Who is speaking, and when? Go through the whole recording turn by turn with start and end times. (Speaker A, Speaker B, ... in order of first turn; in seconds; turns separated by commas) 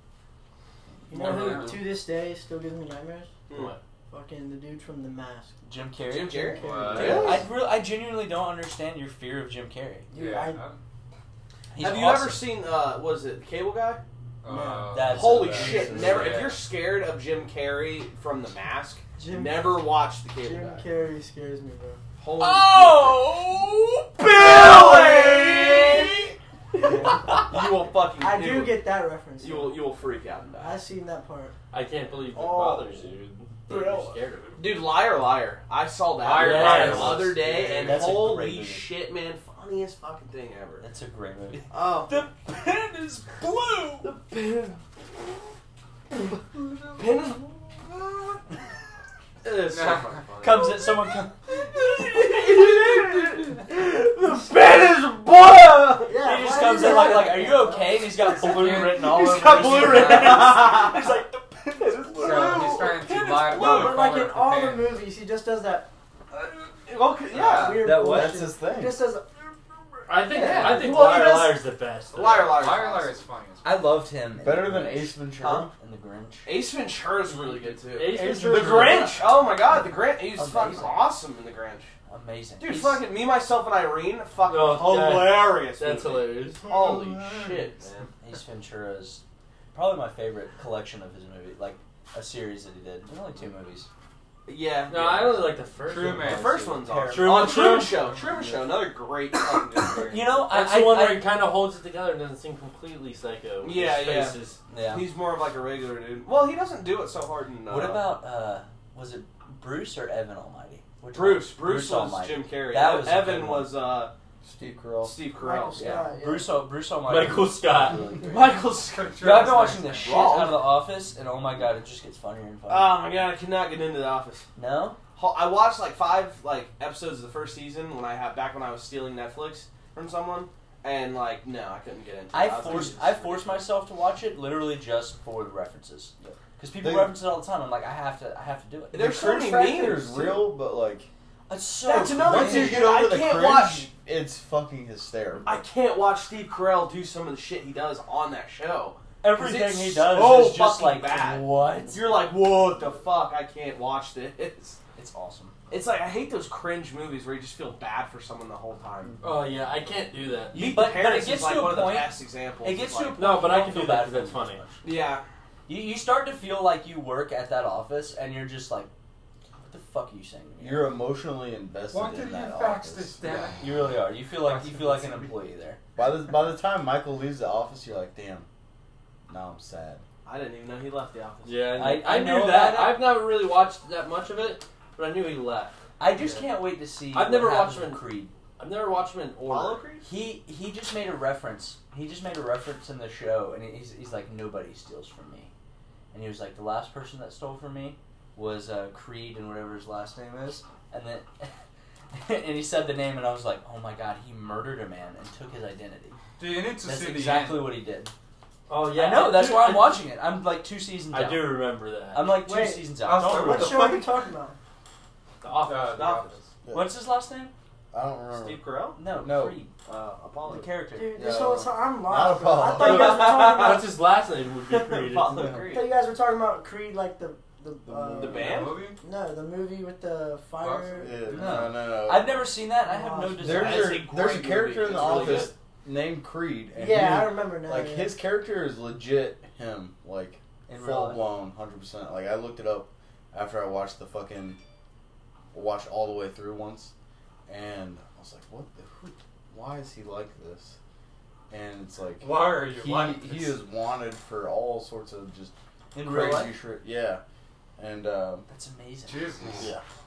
Speaker A: 1.1-3.3, Speaker B: 1.1-1.9, Speaker C: 3.5-3.8, Speaker D: 3.5-3.8, Speaker A: 4.1-5.6, Speaker E: 5.6-10.1, Speaker C: 6.1-7.5, Speaker A: 6.6-7.0, Speaker F: 6.7-7.4, Speaker B: 6.7-7.0, Speaker A: 10.1-10.6, Speaker B: 10.1-10.8, Speaker E: 11.7-12.5, Speaker C: 11.8-14.0, Speaker B: 14.4-16.6, Speaker F: 14.5-16.3, Speaker E: 14.9-16.3, Speaker C: 15.1-20.9, Speaker A: 19.2-19.8, Speaker A: 20.4-22.0, Speaker C: 22.2-26.2, Speaker E: 22.7-23.1, Speaker E: 24.4-25.0, Speaker C: 27.3-28.8, Speaker A: 28.2-29.8, Speaker C: 29.4-30.8, Speaker A: 30.6-31.6, Speaker D: 31.7-34.7, Speaker C: 34.6-40.9, Speaker B: 36.2-37.9, Speaker D: 36.2-38.2, Speaker E: 37.8-38.9, Speaker E: 40.8-44.1, Speaker C: 41.7-42.2, Speaker C: 44.0-44.8, Speaker C: 46.9-48.4, Speaker C: 49.4-50.7, Speaker B: 49.7-50.3, Speaker E: 50.4-51.3, Speaker D: 51.9-56.1, Speaker C: 52.1-53.5, Speaker A: 56.0-58.2, Speaker E: 56.2-62.8, Speaker B: 58.3-59.3, Speaker D: 59.1-60.5, Speaker C: 59.5-60.8, Speaker C: 62.2-63.9, Speaker B: 62.2-65.0, Speaker A: 63.5-65.9, Speaker C: 66.8-67.9, Speaker A: 67.3-69.5, Speaker E: 67.8-68.4, Speaker F: 67.9-69.1, Speaker D: 70.1-72.5, Speaker C: 70.3-73.2, Speaker B: 70.5-70.9, Speaker B: 72.1-73.8, Speaker E: 73.6-76.5, Speaker F: 74.4-75.7, Speaker C: 75.3-75.7, Speaker C: 76.4-81.9, Speaker D: 77.2-79.2, Speaker B: 78.1-79.0, Speaker E: 78.5-81.1, Speaker E: 82.1-83.0, Speaker C: 82.6-88.1, Speaker D: 84.5-86.6, Speaker B: 87.1-87.5, Speaker E: 88.2-93.9, Speaker C: 94.5-100.4, Speaker D: 94.9-98.0, Speaker B: 95.8-96.8, Speaker E: 96.8-97.5, Speaker B: 98.0-98.7, Speaker E: 100.1-101.3, Speaker D: 100.5-104.6, Speaker C: 103.6-108.1, Speaker E: 104.7-105.1, Speaker E: 107.7-113.7, Speaker C: 111.1-114.1, Speaker F: 114.4-115.2, Speaker C: 115.0-116.1, Speaker A: 115.4-116.6, Speaker E: 115.8-118.3, Speaker D: 117.0-118.5, Speaker C: 118.3-119.2, Speaker B: 118.8-120.3, Speaker E: 119.2-122.9, Speaker C: 120.0-120.7, Speaker C: 122.7-124.5, Speaker E: 124.6-125.0, Speaker C: 125.1-133.5, Speaker E: 132.3-139.1, Speaker F: 136.7-137.2, Speaker C: 138.9-140.5, Speaker F: 138.9-141.1, Speaker E: 141.5-142.9, Speaker C: 141.8-143.9, Speaker F: 142.1-145.6, Speaker C: 145.4-154.8, Speaker E: 149.2-152.0, Speaker E: 154.9-155.6, Speaker C: 155.7-159.2, Speaker D: 159.2-160.7, Speaker E: 160.5-164.8, Speaker C: 160.5-163.2, Speaker D: 163.2-164.6, Speaker C: 164.8-165.2, Speaker E: 165.7-168.9, Speaker E: 169.6-171.0, Speaker F: 170.6-173.7, Speaker B: 171.9-173.8, Speaker E: 173.6-175.8, Speaker B: 174.4-175.3, Speaker F: 175.9-178.5, Speaker F: 179.3-180.0, Speaker C: 180.2-181.8, Speaker D: 181.4-185.8, Speaker E: 181.7-183.1, Speaker E: 186.0-188.3, Speaker D: 187.1-189.8, Speaker C: 189.5-190.1, Speaker E: 190.0-195.5, Speaker E: 196.1-201.5, Speaker E: 202.1-206.2, Speaker B: 206.4-207.8, Speaker E: 206.8-208.1, Speaker D: 208.7-210.1, Speaker E: 208.9-213.8, Speaker D: 211.1-212.3, Speaker A: 212.3-214.6, Speaker B: 213.0-214.1, Speaker D: 215.4-216.4, Speaker B: 215.6-216.3, Speaker F: 216.6-217.0, Speaker E: 216.7-217.5, Speaker F: 217.9-219.6, Speaker C: 218.3-219.1, Speaker E: 218.9-219.7, Speaker C: 219.8-220.7, Speaker E: 220.4-221.2, Speaker A: 220.9-223.9, Speaker F: 221.1-223.5, Speaker D: 222.6-225.6, Speaker C: 224.8-225.9, Speaker F: 225.1-225.8, Speaker A: 225.6-231.5, Speaker F: 227.8-228.6, Speaker C: 228.2-228.8, Speaker B: 228.4-229.0, Speaker B: 230.6-231.6, Speaker F: 231.0-232.3, Speaker E: 231.3-234.1, Speaker A: 232.8-233.8, Speaker F: 233.4-244.6, Speaker C: 233.5-235.5, Speaker D: 235.0-235.4, Speaker A: 236.7-238.2, Speaker E: 240.7-241.3, Speaker F: 245.5-246.9, Speaker F: 247.5-250.8, Speaker F: 251.5-257.2, Speaker B: 252.2-253.7, Speaker E: 255.9-256.6, Speaker F: 257.8-258.5, Speaker E: 258.5-259.3, Speaker B: 259.1-259.7, Speaker F: 259.5-259.8